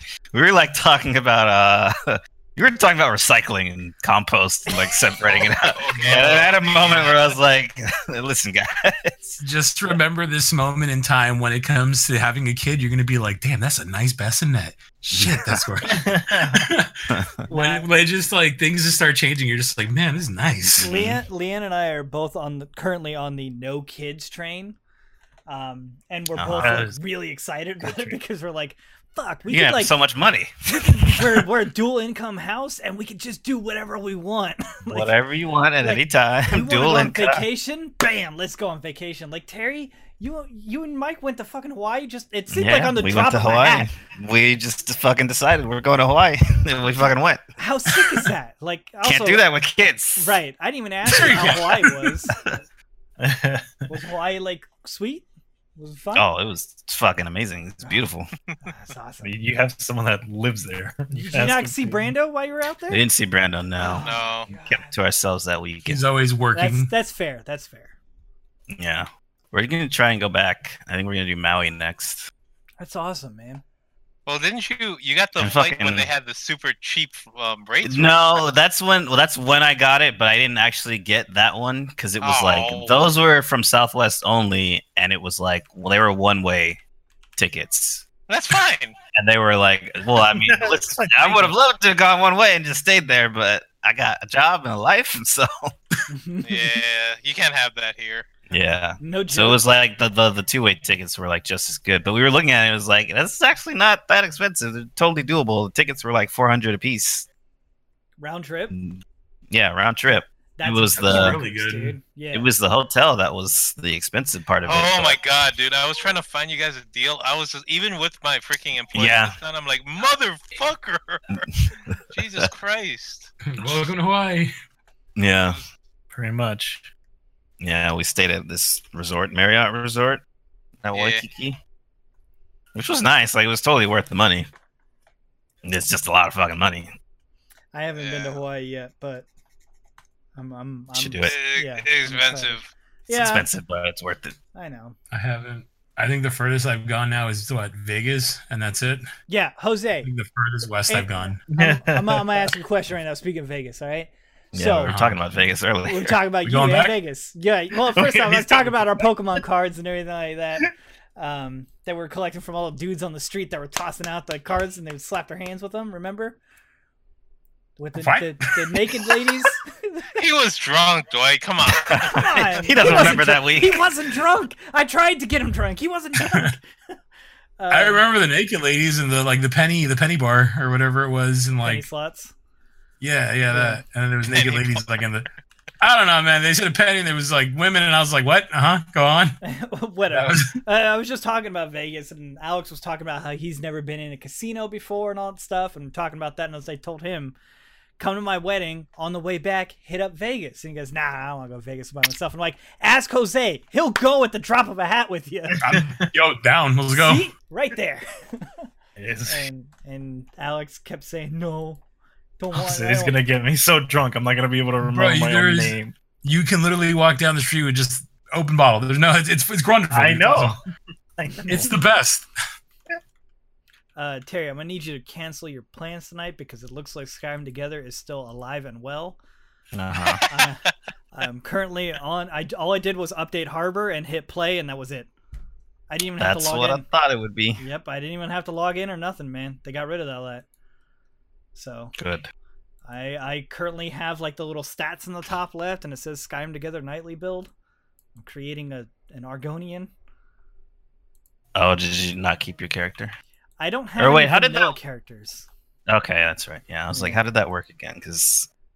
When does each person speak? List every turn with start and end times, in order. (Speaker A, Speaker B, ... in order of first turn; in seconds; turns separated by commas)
Speaker A: 0.3-9.4, Speaker B: 5.5-7.3, Speaker C: 9.4-20.9, Speaker A: 15.1-15.6, Speaker D: 15.8-16.7, Speaker E: 17.5-17.9, Speaker A: 20.8-21.2, Speaker E: 20.8-24.8, Speaker E: 25.5-29.9, Speaker A: 26.4-26.9, Speaker D: 26.6-26.9, Speaker D: 27.8-28.1, Speaker A: 29.5-31.5, Speaker E: 30.7-35.1, Speaker A: 34.9-37.5, Speaker E: 35.8-43.9, Speaker A: 42.5-47.4, Speaker E: 47.6-49.5, Speaker A: 49.0-50.4, Speaker E: 50.1-52.3, Speaker C: 51.0-51.9, Speaker A: 51.2-51.6, Speaker D: 53.2-53.8, Speaker E: 53.9-56.3, Speaker A: 56.1-58.3, Speaker E: 58.6-59.3, Speaker D: 59.2-62.1, Speaker E: 61.1-63.0, Speaker A: 62.9-66.0, Speaker E: 63.8-65.0, Speaker B: 64.0-64.5, Speaker C: 65.8-66.9, Speaker E: 66.5-67.9, Speaker A: 68.7-72.3, Speaker E: 72.8-73.6, Speaker B: 74.3-78.5, Speaker A: 75.4-76.1, Speaker A: 77.8-86.8, Speaker B: 82.2-83.1, Speaker A: 87.4-88.0, Speaker B: 88.3-88.9, Speaker A: 89.1-95.5, Speaker D: 90.2-91.5, Speaker E: 96.1-96.8, Speaker B: 96.4-98.3, Speaker A: 98.5-107.3, Speaker E: 99.0-99.6, Speaker E: 108.2-108.7, Speaker A: 108.7-111.4, Speaker E: 110.6-112.5, Speaker C: 111.0-112.0, Speaker A: 112.3-115.2, Speaker B: 114.6-121.5, Speaker A: 118.9-119.3, Speaker A: 121.7-122.5, Speaker B: 122.1-123.3, Speaker C: 123.4-124.5, Speaker A: 125.2-125.6, Speaker D: 126.1-126.9, Speaker A: 127.6-130.2, Speaker A: 130.8-131.6, Speaker B: 130.9-131.2, Speaker A: 132.7-134.5, Speaker A: 135.6-136.9, Speaker E: 137.7-139.3, Speaker B: 137.9-138.4, Speaker E: 140.3-143.5, Speaker A: 140.9-141.3, Speaker B: 141.2-142.7, Speaker A: 143.1-144.3, Speaker E: 144.5-144.9, Speaker C: 145.1-149.0, Speaker E: 149.3-150.1, Speaker C: 150.0-151.4, Speaker E: 150.9-155.0, Speaker D: 151.5-152.5, Speaker A: 154.5-156.2, Speaker C: 154.8-155.4, Speaker E: 155.8-166.4, Speaker C: 156.4-157.0, Speaker D: 157.9-159.1, Speaker E: 167.8-170.1, Speaker C: 168.0-168.7, Speaker B: 170.2-172.2, Speaker A: 171.6-173.9, Speaker E: 172.0-176.7, Speaker C: 176.2-176.5, Speaker E: 177.6-178.0, Speaker C: 177.7-181.8, Speaker E: 181.6-182.3, Speaker C: 183.0-185.3, Speaker E: 183.5-183.8, Speaker B: 184.3-184.9, Speaker C: 185.8-189.4, Speaker E: 189.4-197.3, Speaker C: 190.1-190.6, Speaker E: 198.0-205.6, Speaker C: 205.6-207.3, Speaker D: 205.6-206.1, Speaker E: 206.9-208.6, Speaker D: 208.9-209.4, Speaker E: 209.2-211.8, Speaker E: 212.4-213.2, Speaker D: 212.5-215.9, Speaker C: 214.8-220.6, Speaker D: 219.9-220.6, Speaker D: 221.2-221.7, Speaker E: 221.4-221.7, Speaker C: 221.5-222.3, Speaker E: 223.9-229.2, Speaker A: 229.7-230.2, Speaker B: 230.2-230.7, Speaker E: 230.3-235.1, Speaker E: 235.9-236.8, Speaker A: 236.2-237.6, Speaker E: 237.6-240.4, Speaker E: 241.5-241.9, Speaker A: 242.0-242.3, Speaker E: 242.8-247.5, Speaker E: 248.2-249.9, Speaker A: 251.5-253.1, Speaker E: 253.6-255.5, Speaker A: 254.0-254.8, Speaker A: 255.9-258.5, Speaker E: 256.9-257.2